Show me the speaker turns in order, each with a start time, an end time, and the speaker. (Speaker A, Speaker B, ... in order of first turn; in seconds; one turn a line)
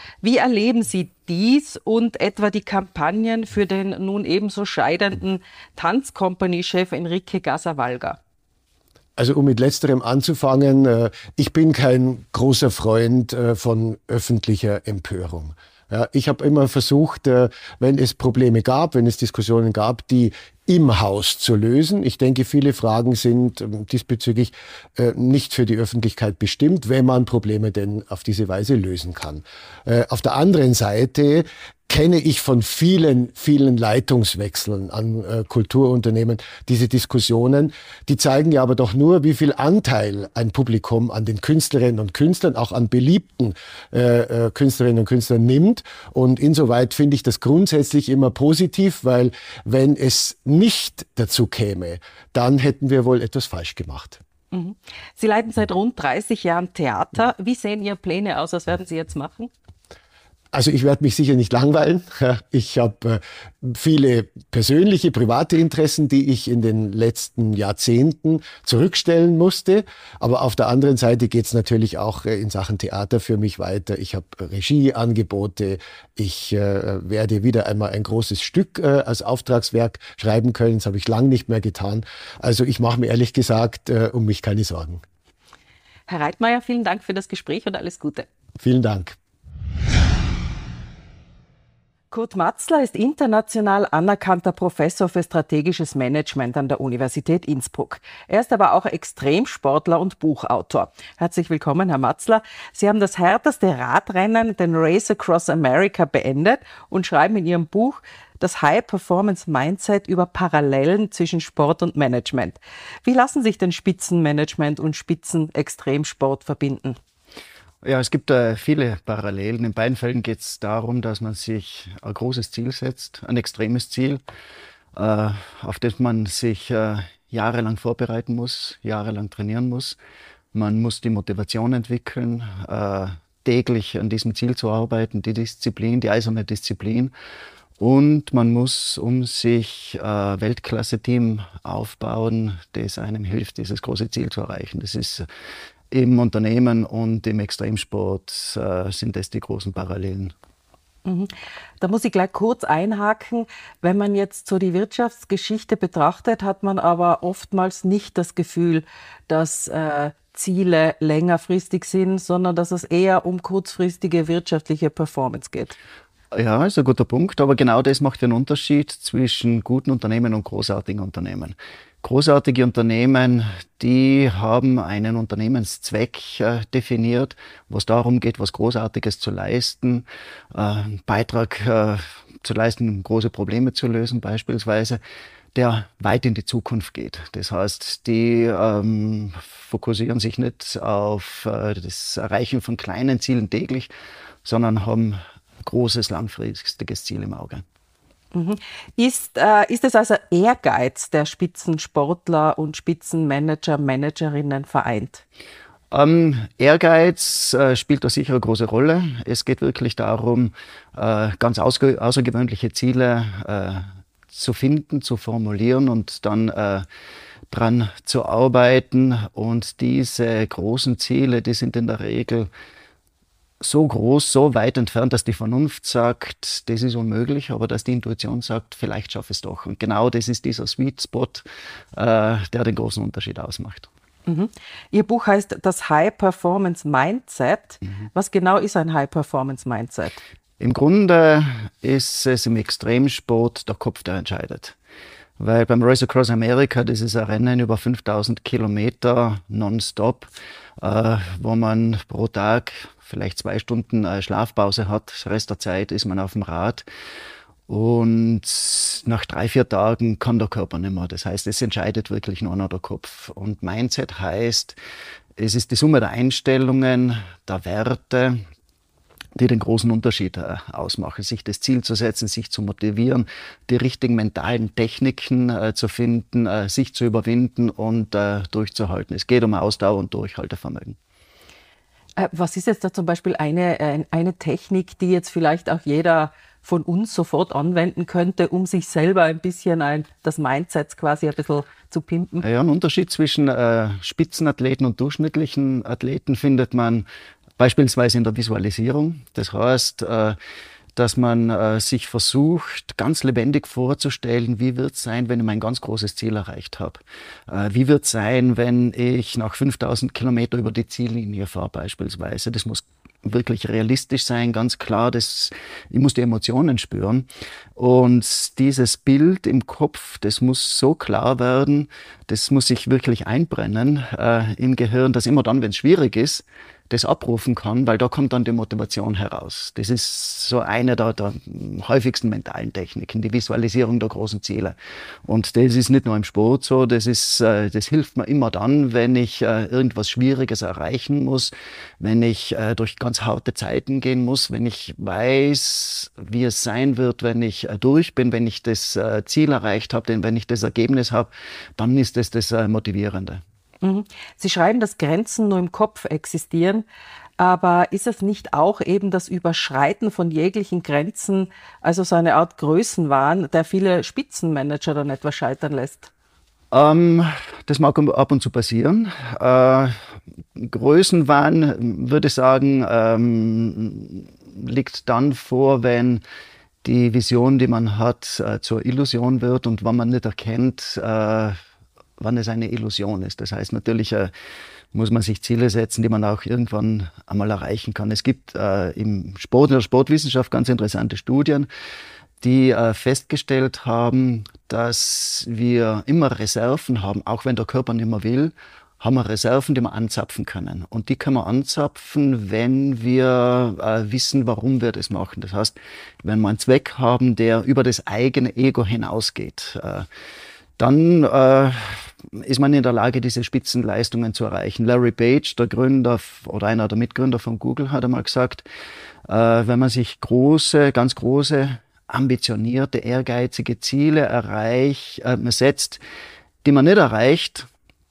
Speaker A: 0.2-8.2
Speaker B: 9.2-54.2
Speaker A: 54.5-59.5
Speaker B: 60.5-85.0
Speaker A: 86.1-88.3
Speaker B: 88.6-89.2
Speaker A: 92.1-117.0
Speaker C: 117.8-124.2
Speaker C: 125.0-130.0
Speaker C: 130.5-137.1
Speaker C: 137.8-145.3
Speaker C: 145.9-150.3
Speaker A: 151.1-165.8
Speaker C: 166.3-185.0
Speaker C: 185.6-193.9
Speaker C: 194.4-197.6
Speaker A: 198.3-205.2
Speaker C: 205.9-216.9
Speaker C: 217.5-222.5
Speaker C: 223.6-233.9
Speaker A: 234.3-240.2
Speaker C: 240.6-244.8
Speaker C: 245.4-256.9
Speaker C: 257.7-264.8
Speaker C: 265.4-268.4
Speaker C: 269.4-281.0
Speaker A: 282.2-292.4
Speaker C: 292.4-297.1
Speaker C: 297.6-300.4
Speaker C: 301.0-353.4
Speaker A: 353.8-356.9
Speaker A: 357.4-366.1
Speaker C: 366.7-370.0
Speaker C: 370.6-376.2
Speaker C: 376.8-381.6
Speaker C: 382.2-384.3
Speaker C: 384.9-391.7
Speaker C: 392.4-410.1
Speaker C: 410.8-418.6
Speaker C: 419.3-426.0
Speaker C: 426.6-427.7